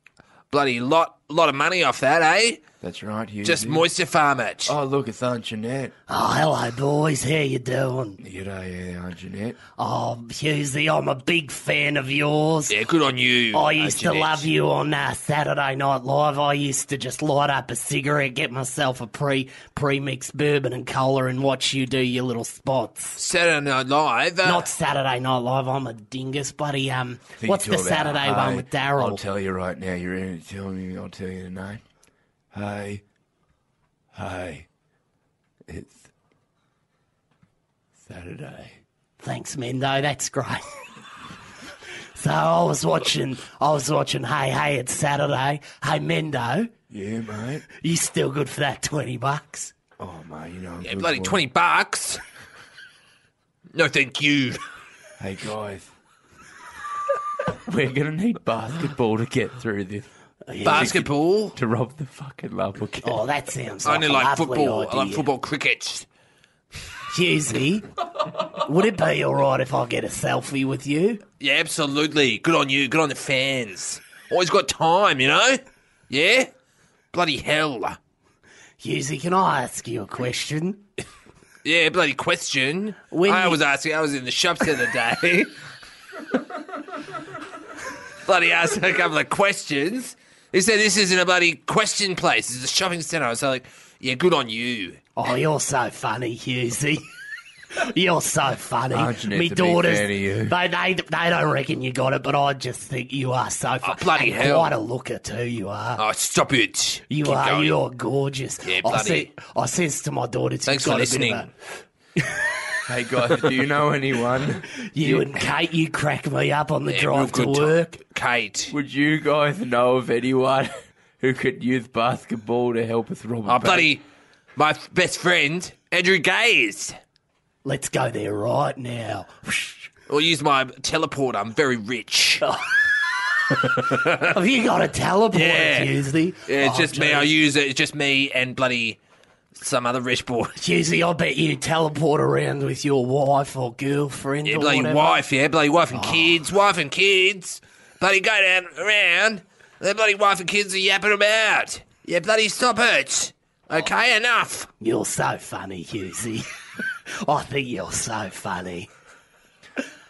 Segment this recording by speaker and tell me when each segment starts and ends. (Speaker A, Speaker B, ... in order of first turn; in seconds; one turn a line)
Speaker A: 0.5-2.6
Speaker B: 2.8-3.9
Speaker A: 3.4-4.7
Speaker B: 4.6-5.9
Speaker C: 6.1-8.2
Speaker B: 8.2-9.6
Speaker C: 9.8-12.8
Speaker A: 12.7-14.5
Speaker C: 13.5-23.2
Speaker A: 23.2-24.7
Speaker C: 24.4-29.2
Speaker B: 27.4-31.8
Speaker B: 32.5-33.0
Speaker B: 34.1-34.7
Speaker B: 35.7-36.1
Speaker B: 38.0-38.8
Speaker C: 39.2-40.8
Speaker C: 42.1-46.7
Speaker B: 46.9-47.6
Speaker C: 47.7-49.7
Speaker B: 50.0-51.5
Speaker A: 50.8-52.2
Speaker A: 53.7-54.6
Speaker B: 55.2-55.9
Speaker B: 57.5-60.1
Speaker C: 60.5-61.0
Speaker B: 60.6-63.2
Speaker A: 60.6-61.5
Speaker C: 63.0-65.3
Speaker A: 63.8-66.0
Speaker C: 67.1-67.9
Speaker C: 68.5-71.2
Speaker A: 71.4-76.5
Speaker A: 77.1-78.0
Speaker C: 78.8-80.8
Speaker A: 81.6-85.5
Speaker C: 83.1-83.6
Speaker A: 88.2-95.0
Speaker C: 95.2-97.1
Speaker C: 97.7-106.0
Speaker B: 98.9-100.5
Speaker A: 103.8-104.7
Speaker A: 106.0-107.8
Speaker C: 107.1-111.5
Speaker A: 108.6-109.3
Speaker A: 110.7-111.5
Speaker B: 112.8-115.4
Speaker C: 114.8-118.0
Speaker A: 116.9-118.7
Speaker B: 118.7-124.0
Speaker A: 123.5-124.0
Speaker A: 124.6-126.9
Speaker C: 127.6-129.9
Speaker A: 130.1-132.4
Speaker C: 132.4-132.8
Speaker A: 133.6-134.3
Speaker C: 134.2-137.4
Speaker A: 135.3-135.9
Speaker A: 136.5-139.0
Speaker A: 139.6-140.6
Speaker C: 140.6-145.2
Speaker A: 144.5-154.7
Speaker C: 145.9-146.5
Speaker C: 154.8-156.5
Speaker C: 157.1-158.9